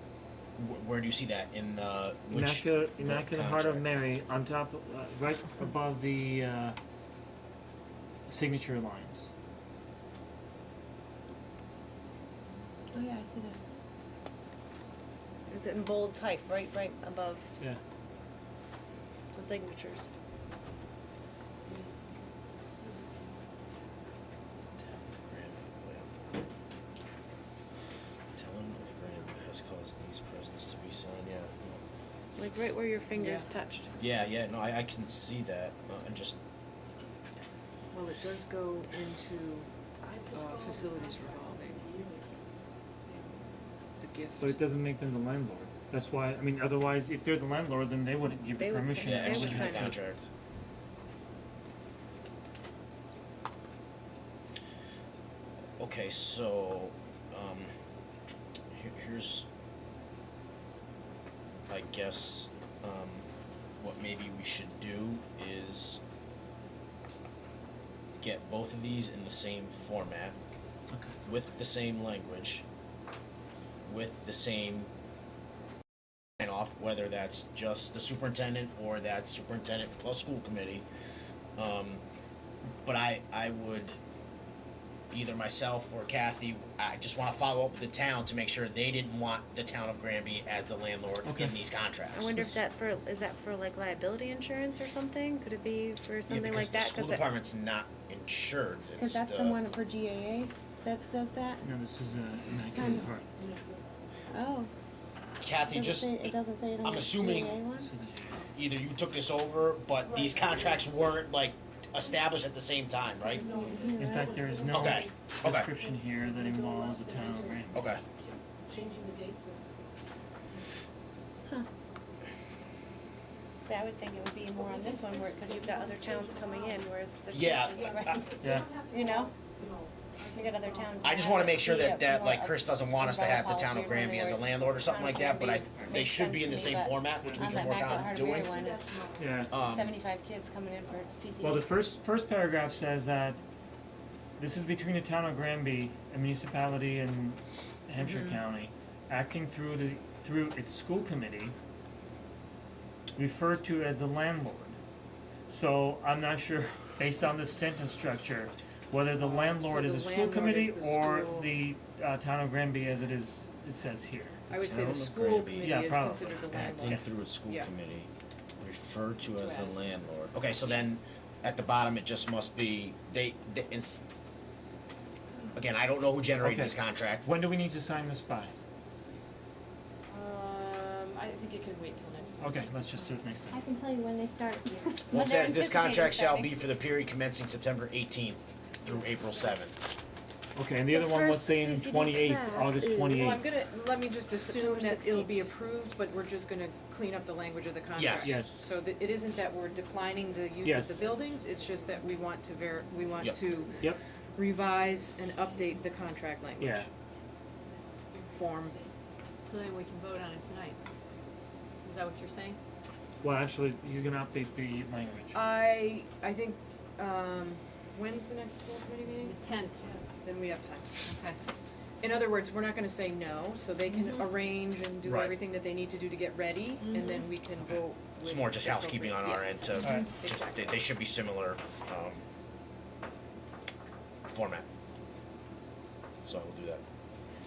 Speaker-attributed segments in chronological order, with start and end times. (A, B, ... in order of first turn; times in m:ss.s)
0:00.6-0:03.8 A
0:02.3-0:06.8 B
0:08.3-0:09.3 B
0:12.9-0:13.6 C
0:15.5-0:17.4 C
0:19.3-0:20.0 C
0:24.8-0:26.1 A
0:28.3-0:31.8 A
0:32.4-0:33.9 C
0:33.2-0:33.4 D
0:34.0-0:36.4 A
0:37.9-0:42.0 D
0:44.0-0:44.6 D
0:44.4-0:50.0 B
0:48.6-0:49.9 C
0:49.0-0:50.2 A
0:55.8-0:57.7 A
0:58.7-0:59.4 A
1:01.7-1:03.2 A
1:03.8-1:06.0 A
1:08.2-1:10.4 A
1:11.2-1:12.6 A
1:13.8-1:14.9 A
1:16.4-1:20.8 A
1:21.6-1:22.0 A
1:22.8-1:24.0 A
1:25.1-1:32.6 A
1:31.2-1:31.6 B
1:32.1-1:37.2 C
1:36.3-1:39.6 A
1:39.0-1:41.6 C
1:41.6-1:43.3 B
1:42.7-1:43.1 C
1:44.3-1:44.7 C
1:45.4-1:47.6 A
1:45.6-1:47.9 C
1:47.8-1:48.5 B
1:48.5-1:53.6 A
1:53.3-1:54.1 C
1:54.0-1:57.8 B
1:54.7-1:55.7 A
1:57.7-1:58.0 A
2:03.6-2:09.3 C
2:07.3-2:08.4 A
2:08.4-2:08.7 B
2:10.3-2:19.0 C
2:11.0-2:18.6 A
2:17.2-2:17.5 B
2:19.2-2:19.5 B
2:19.5-2:20.0 A
2:19.5-2:21.7 C
2:21.4-2:23.4 B
2:24.4-2:31.6 B
2:28.0-2:28.4 D
2:33.2-2:34.8 B
2:35.5-2:44.4 B
2:39.2-2:41.5 D
2:44.5-2:45.8 A
2:44.5-2:47.7 D
2:45.6-2:47.0 B
2:46.5-2:54.0 A
2:49.4-2:49.8 D
2:55.5-2:57.3 A
2:56.4-2:58.5 B
3:00.1-3:02.8 D
3:02.4-3:03.6 B
3:03.5-3:06.6 C
3:05.1-3:09.7 A
3:10.6-3:13.5 B
3:10.9-3:13.5 C
3:13.1-3:23.8 D
3:14.4-3:15.3 C
3:17.9-3:18.4 A
3:18.2-3:18.6 B
3:20.6-3:21.0 B
3:24.3-3:26.8 D
3:26.6-3:26.8 B
3:28.2-3:28.8 D
3:29.4-3:30.8 E
3:31.8-3:32.6 E
3:33.2-3:35.4 B
3:35.3-3:39.4 D
3:39.2-3:40.0 E
3:40.2-3:40.9 D
3:41.0-3:41.4 E
3:42.0-3:50.8 D
3:43.9-3:44.3 C
3:45.0-3:45.4 A
3:46.8-3:47.2 C
3:48.2-3:52.2 A
3:49.8-3:50.1 B
3:49.8-3:50.1 C
3:54.3-3:54.6 A
3:56.2-3:56.8 A